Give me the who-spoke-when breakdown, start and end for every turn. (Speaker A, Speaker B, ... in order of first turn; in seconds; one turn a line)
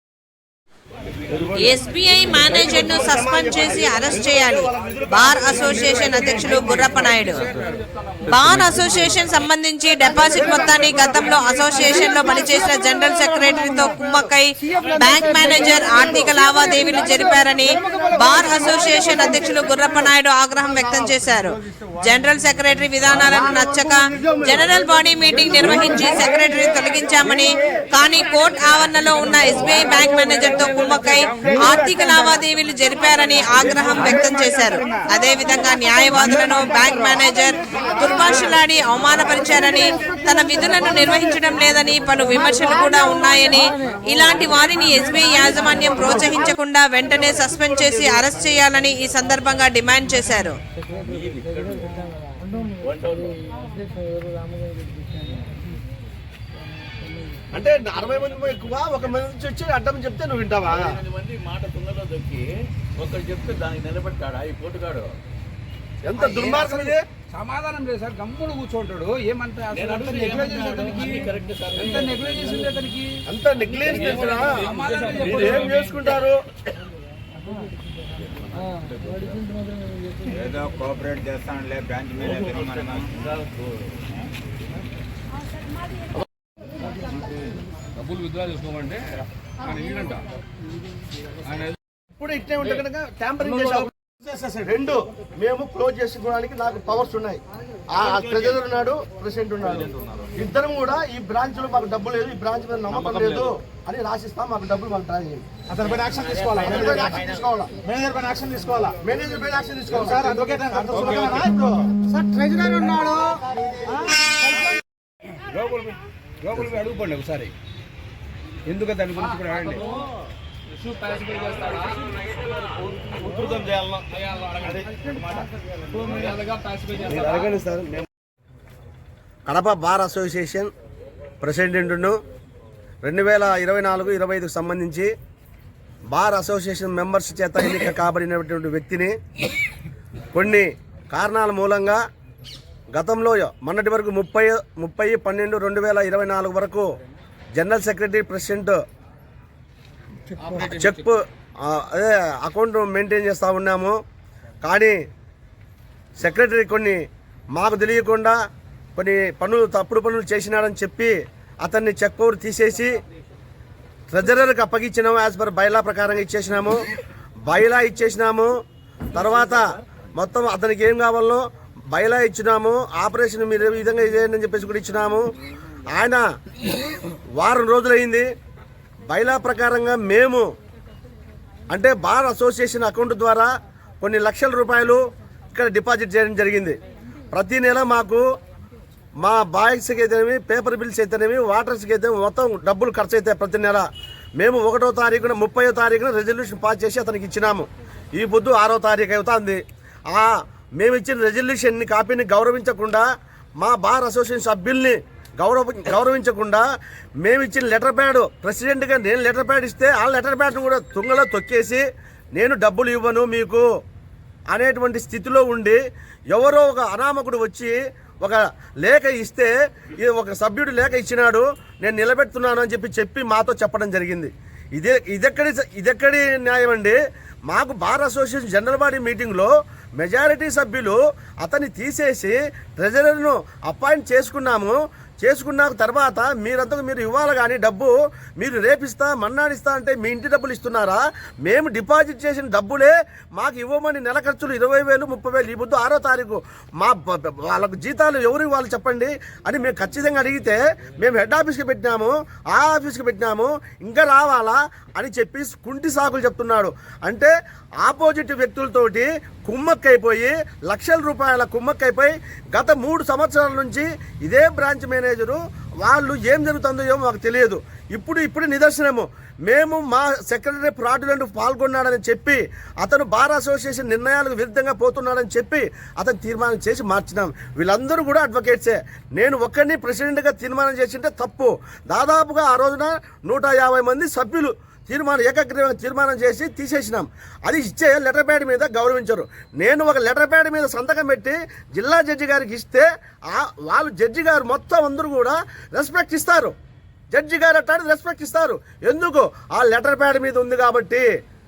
Speaker A: 1.3-1.7
Speaker B: 1.6-7.4
Speaker A: 2.3-6.2
Speaker B: 8.2-50.6
Speaker C: 51.0-51.9
Speaker C: 52.8-53.3
Speaker A: 57.5-60.8
Speaker C: 60.7-65.1
Speaker A: 66.0-67.0
Speaker D: 66.3-71.3
Speaker C: 69.7-72.3
Speaker D: 71.8-73.1
Speaker A: 73.3-76.4
Speaker C: 73.8-75.5
Speaker D: 74.2-75.9
Speaker C: 78.3-79.4
Speaker E: 80.3-83.2
Speaker D: 88.0-89.0
Speaker D: 89.6-90.2
Speaker A: 92.2-93.9
Speaker F: 94.2-94.5
Speaker A: 94.6-105.4
Speaker F: 105.7-107.1
Speaker A: 106.6-107.7
Speaker F: 107.8-108.9
Speaker A: 109.0-111.7
Speaker F: 109.9-111.5
Speaker F: 112.2-113.3
Speaker D: 115.5-117.5
Speaker D: 118.7-119.8
Speaker D: 120.8-121.9
Speaker C: 123.2-124.0
Speaker D: 124.3-124.8
Speaker D: 126.1-127.1
Speaker A: 127.0-128.1
Speaker A: 129.5-130.7
Speaker A: 131.4-132.2
Speaker A: 133.0-135.1
Speaker A: 136.1-139.1
Speaker A: 140.3-142.0
Speaker A: 142.9-146.8
Speaker A: 147.5-148.8
Speaker D: 150.4-150.8
Speaker A: 150.5-153.9
Speaker A: 154.6-154.9
Speaker A: 156.2-157.0
Speaker A: 157.5-158.3
Speaker A: 158.9-163.0
Speaker A: 164.1-166.8
Speaker A: 167.5-168.5
Speaker A: 169.1-169.6
Speaker A: 170.2-175.2
Speaker A: 175.9-176.2
Speaker A: 177.4-178.3
Speaker A: 179.1-180.4
Speaker A: 181.7-183.5
Speaker A: 184.0-185.0
Speaker A: 185.5-186.8
Speaker A: 187.3-188.2
Speaker A: 189.2-193.8
Speaker A: 194.4-199.6
Speaker A: 200.1-203.0
Speaker A: 203.6-206.6
Speaker A: 207.2-211.8
Speaker A: 212.3-213.6
Speaker A: 214.5-215.8
Speaker A: 216.3-227.0
Speaker A: 227.5-257.3
Speaker A: 257.8-296.5
Speaker A: 297.1-301.0